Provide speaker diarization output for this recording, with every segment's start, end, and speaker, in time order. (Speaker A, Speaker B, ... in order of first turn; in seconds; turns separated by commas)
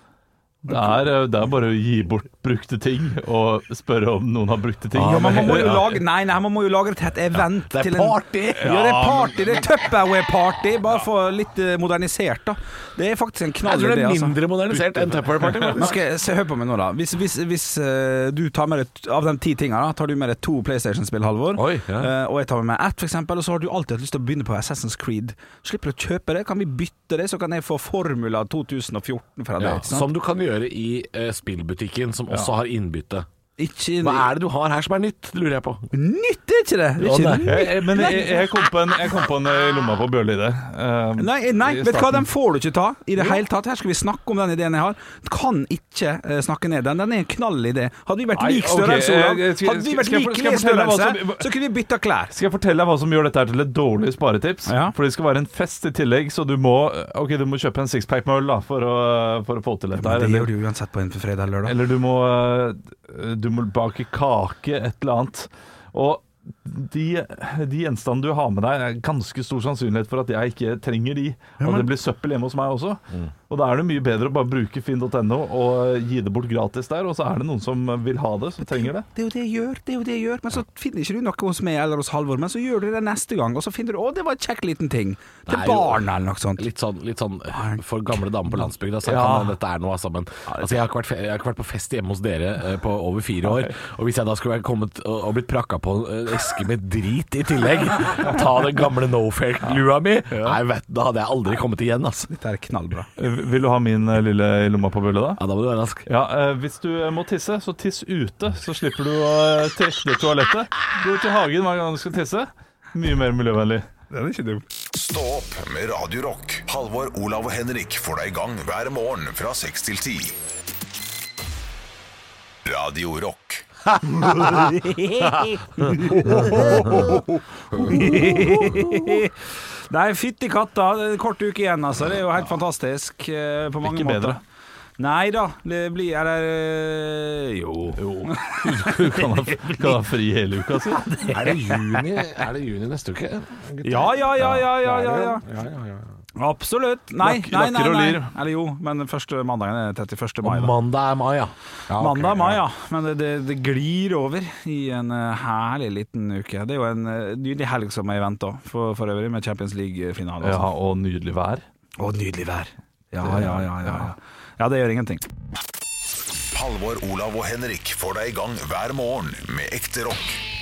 Speaker A: 0.7-6.0, Speaker B: 0.7-1.0, Speaker C: 5.0-5.9, Speaker B: 5.0-14.4, Speaker C: 7.7-8.7, Speaker A: 8.6-9.7, Speaker C: 13.6-16.0, Speaker A: 14.7-15.9, Speaker B: 15.7-30.1, Speaker C: 21.6-22.1, Speaker C: 29.6-33.3, Speaker B: 33.6-34.3, Speaker C: 34.0-35.9, Speaker B: 35.9-38.5, Speaker C: 37.0-37.6, Speaker A: 37.4-42.3, Speaker B: 41.2-52.3, Speaker A: 48.3-51.5, Speaker A: 52.3-60.5, Speaker B: 54.7-55.0, Speaker B: 60.0-61.8, Speaker A: 61.6-79.1, Speaker B: 71.6-71.9, Speaker B: 78.6-86.7, Speaker C: 85.5-86.0, Speaker C: 86.6-102.3, Speaker B: 87.5-88.7, Speaker A: 89.0-89.6, Speaker B: 102.3-103.1, Speaker A: 103.2-105.4, Speaker C: 105.4-106.1, Speaker A: 106.1-113.9, Speaker B: 114.1-114.6, Speaker D: 114.9-120.4, Speaker D: 122.7-123.7, Speaker B: 124.3-129.3, Speaker A: 126.2-126.8, Speaker C: 127.9-128.8, Speaker B: 129.9-134.4, Speaker A: 133.8-134.4, Speaker B: 135.0-139.9, Speaker A: 138.0-141.3, Speaker B: 141.2-142.0, Speaker C: 141.3-146.1, Speaker B: 143.8-145.4, Speaker B: 146.4-150.7, Speaker A: 147.2-148.3, Speaker C: 150.4-152.6, Speaker B: 152.0-160.7, Speaker A: 160.4-161.6, Speaker B: 162.0-165.2, Speaker A: 163.2-164.1, Speaker D: 166.5-170.4